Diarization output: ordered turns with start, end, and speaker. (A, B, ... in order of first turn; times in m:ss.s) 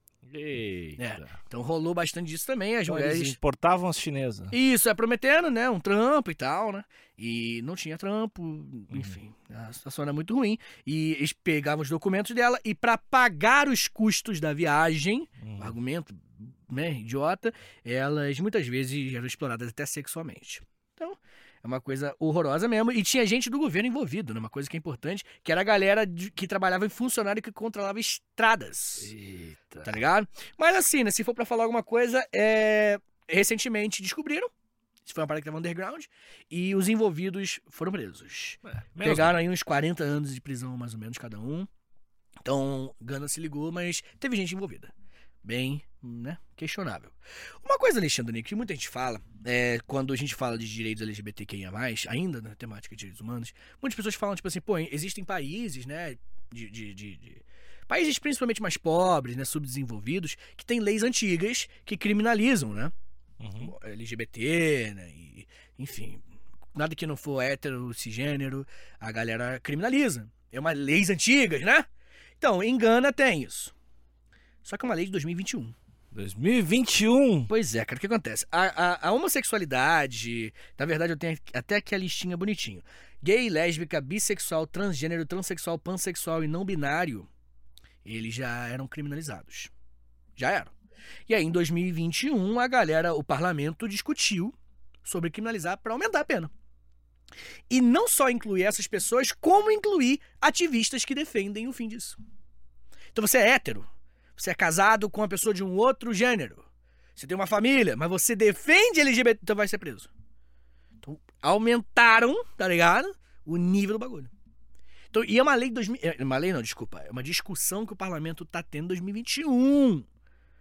0:00.2-0:01.4 A
0:01.0-0:03.4 B
0:02.9-0:04.6 A
0:04.5-0:29.1 B
0:08.9-0:09.2 A
0:15.4-0:15.8 A
0:29.0-0:30.0 A
0:29.8-0:34.5 B
0:35.0-0:41.7 B
0:38.7-0:39.4 A
0:42.5-0:44.9 B
0:45.4-1:02.9 B
1:03.4-1:03.7 A
1:03.6-1:06.2 B
1:06.7-1:11.9 B
1:12.4-1:13.7 B
1:14.6-1:15.8 B
1:16.1-1:17.5 A
1:17.5-1:27.3 B
1:28.0-1:29.7 B
1:30.4-1:30.7 B
1:31.3-1:36.5 B
1:37.7-1:42.2 B
1:43.1-1:50.1 B
1:51.0-1:54.3 B
1:55.1-2:00.1 B